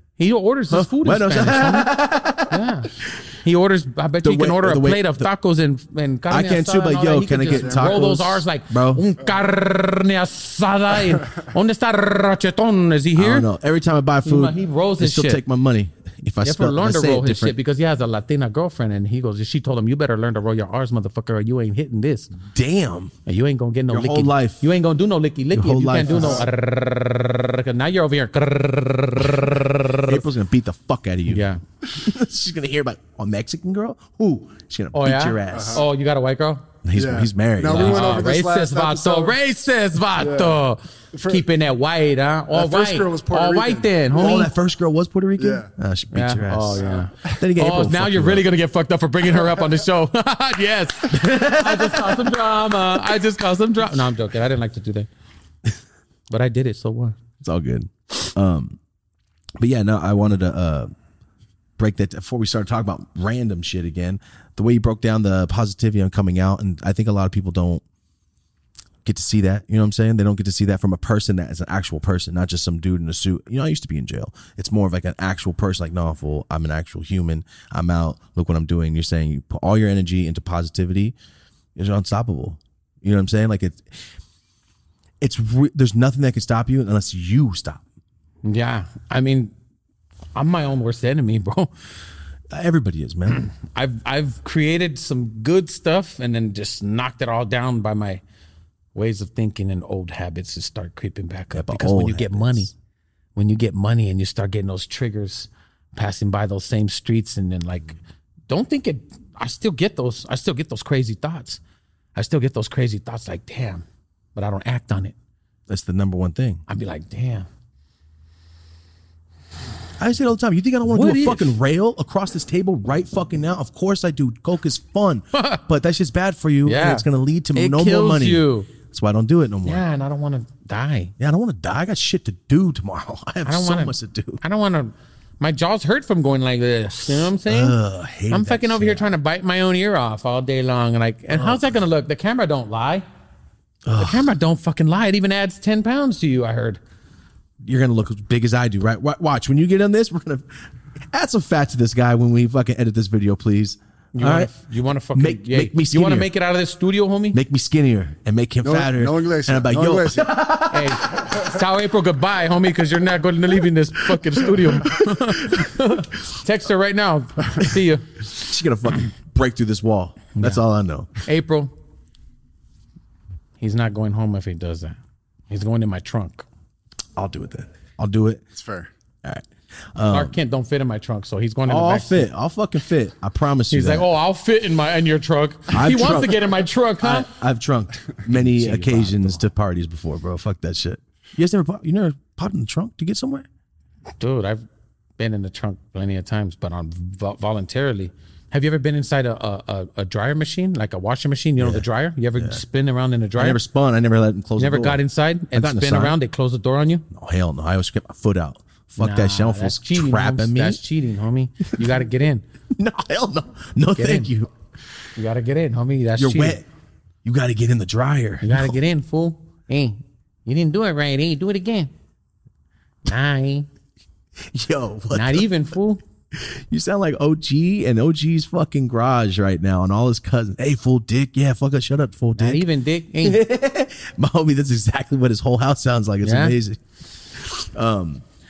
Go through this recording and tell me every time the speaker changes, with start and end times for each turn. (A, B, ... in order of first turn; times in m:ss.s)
0:00.2-0:01.9 A
0:00.7-0:02.6 B
0:02.5-0:13.5 A
0:04.2-0:05.3 B
0:06.3-0:09.0 B
0:07.5-0:08.0 C
0:13.2-0:17.6 B
0:14.2-0:15.4 A
0:16.4-0:22.4 A
0:22.4-0:23.1 B
0:23.2-0:30.2 A
0:23.9-0:24.6 B
0:25.5-0:26.5 B
0:26.1-0:26.5 C
0:30.0-0:35.8 B
0:31.3-0:31.6 A
0:34.9-0:36.7 A
0:35.5-0:35.8 C
0:36.8-0:38.3 B
0:36.9-0:39.4 C
0:37.6-0:44.5 A
0:40.2-0:40.6 C
0:41.1-0:41.4 C
0:42.5-0:44.5 C
0:44.1-0:48.5 B
0:45.4-0:45.7 C
0:46.1-0:55.1 A
0:46.8-0:47.4 C
0:51.1-0:52.3 B
0:56.3-0:57.2 A
0:57.4-0:58.8 B
0:59.6-1:00.9 B
1:01.8-1:07.8 B
1:09.0-1:21.1 B
1:21.8-1:24.0 B
1:25.2-1:27.8 B
1:28.4-1:29.5 A
1:30.3-1:31.7 A
1:32.5-1:33.5 B
1:33.3-1:38.2 A
1:38.9-1:42.7 A
1:41.5-1:42.7 B
1:43.4-1:48.0 A
1:48.5-1:51.6 A
1:52.1-1:55.1 A
1:55.7-1:56.6 B
1:56.7-1:57.5 A
2:00.0-2:09.8 B
2:00.8-2:01.6 A
2:05.3-2:05.6 A
2:06.6-2:08.7 A
2:09.6-2:11.1 A
2:11.2-2:14.4 B
2:13.4-2:17.8 A
2:17.1-2:19.1 B
2:18.3-2:23.0 A
2:21.3-2:21.6 B
2:23.8-2:24.3 B
2:24.0-2:26.8 A
2:27.6-2:34.5 B
2:34.1-2:37.4 A
2:35.1-2:36.3 B
2:37.3-2:41.2 B
2:38.6-2:40.4 C
2:40.6-2:48.2 A
2:44.2-2:46.0 B
2:48.2-2:51.2 B
2:50.4-2:50.6 A
2:51.2-2:51.7 A
2:53.6-2:55.0 A
2:55.5-2:56.4 A
2:57.2-2:58.4 B
2:58.5-2:58.9 C
2:59.2-3:00.4 B
3:00.0-3:02.3 A
3:01.6-3:04.1 B
3:03.7-3:07.3 A
3:05.7-3:13.4 B
3:08.3-3:09.4 A
3:14.2-3:14.6 A
3:15.2-3:23.6 A
3:21.6-3:21.8 B
3:22.4-3:22.6 B
3:23.4-3:25.0 B
3:24.6-3:27.0 A
3:25.5-3:26.2 B
3:27.1-3:30.8 B
3:29.0-3:32.4 A
3:32.7-3:34.5 B
3:34.0-3:34.3 A
3:35.2-3:36.6 A
3:36.2-3:36.6 B
3:37.2-3:38.8 B
3:38.4-3:41.9 A
3:43.0-3:43.7 A
3:44.4-3:45.5 B
3:45.1-3:46.0 A
3:46.3-3:52.6 B
3:52.4-3:53.4 A
3:53.2-3:58.2 B
3:56.2-3:56.6 A